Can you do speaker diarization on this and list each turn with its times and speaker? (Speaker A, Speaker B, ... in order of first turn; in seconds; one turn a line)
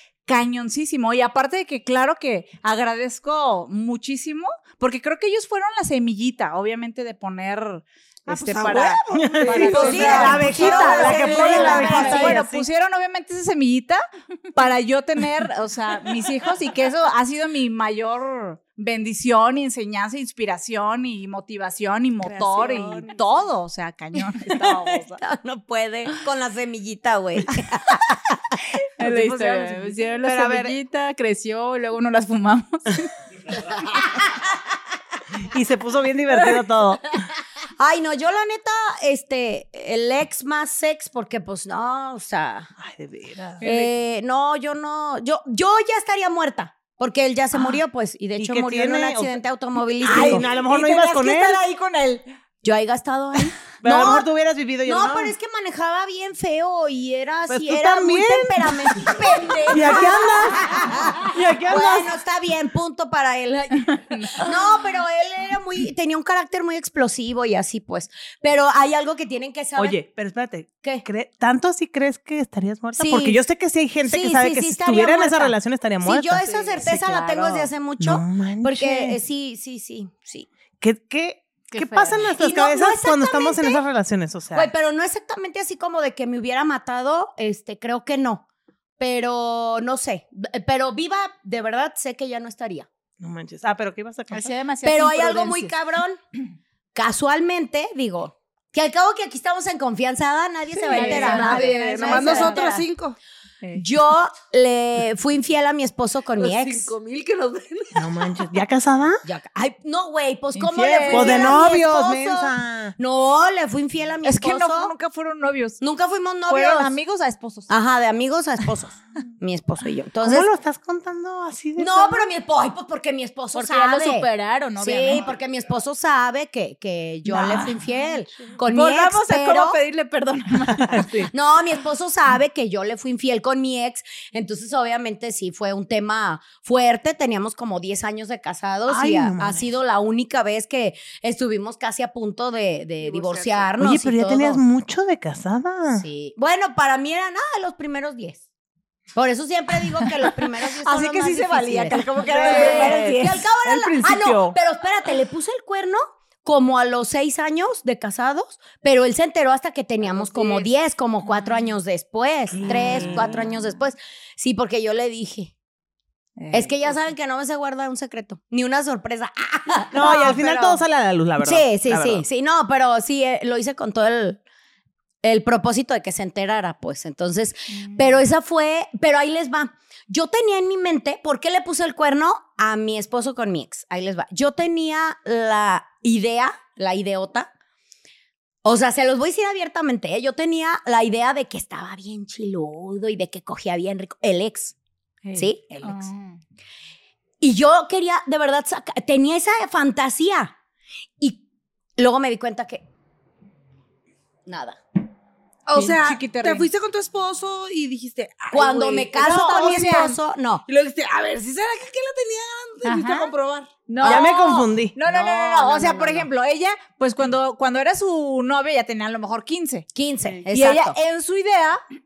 Speaker A: 0.2-25.2
Speaker B: 8.3-12.4
Speaker C: 9.1-12.7
Speaker D: 9.5-12.4
Speaker C: 22.3-22.9
Speaker D: 22.4-23.0
Speaker D: 24.5-28.2
Speaker A: 29.0-30.6
Speaker E: 29.0-33.1
Speaker C: 30.2-30.7
Speaker C: 35.4-37.0
Speaker D: 37.8-42.7
Speaker C: 42.8-43.6
Speaker D: 43.6-50.5
Speaker C: 48.4-49.4
Speaker A: 50.0-52.2
Speaker C: 50.0-51.6
Speaker D: 52.6-54.3
Speaker C: 53.8-55.3
Speaker D: 54.8-70.0
Speaker C: 57.5-62.1
Speaker A: 59.2-60.0
Speaker C: 69.8-76.4
Speaker D: 73.0-73.4
Speaker D: 74.0-80.5
Speaker B: 76.4-76.9
Speaker C: 78.0-79.2
Speaker C: 80.8-84.7
Speaker E: 81.7-82.3
Speaker D: 82.4-83.8
Speaker D: 84.5-88.4
Speaker D: 89.0-92.9
Speaker C: 93.2-94.5
Speaker E: 94.3-95.7
Speaker D: 94.8-96.2
Speaker D: 96.9-102.9
Speaker B: 100.7-103.2
Speaker E: 100.9-102.7
Speaker A: 100.9-101.6
Speaker D: 103.7-106.9
Speaker B: 106.4-108.4
Speaker C: 107.9-109.2
Speaker D: 109.2-114.9
Speaker A: 110.6-111.5
Speaker C: 111.1-113.0
Speaker A: 114.2-115.8
Speaker D: 115.8-117.0
Speaker A: 116.5-117.7
Speaker D: 117.7-120.5
Speaker C: 120.2-122.3
Speaker D: 121.8-129.8
Speaker E: 123.5-125.3
Speaker E: 128.7-131.2
Speaker C: 130.9-131.3
Speaker D: 131.3-144.6
Speaker C: 138.9-139.7
Speaker B: 143.0-143.7
Speaker C: 143.8-146.1
Speaker D: 145.9-148.4
Speaker D: 149.1-165.5
Speaker A: 150.8-154.6
Speaker C: 152.2-152.8
Speaker B: 152.3-153.1
Speaker C: 162.6-163.3
Speaker A: 162.9-163.3
Speaker A: 166.4-166.9
Speaker D: 166.5-170.4
Speaker C: 169.9-172.2
Speaker D: 171.4-174.4
Speaker D: 175.2-187.5
Speaker D: 188.6-194.7
Speaker E: 195.2-196.3
Speaker A: 195.3-196.1
Speaker D: 195.3-195.7
Speaker D: 197.4-200.5
Speaker D: 202.0-202.8
Speaker D: 204.5-204.8
Speaker B: 205.7-210.1
Speaker A: 205.7-206.7
Speaker D: 208.5-210.6
Speaker A: 209.3-210.2
Speaker B: 210.7-214.1
Speaker A: 212.8-213.3
Speaker A: 213.8-219.9
Speaker C: 214.0-215.0
Speaker D: 215.1-216.2
Speaker D: 219.9-221.0
Speaker A: 220.5-221.8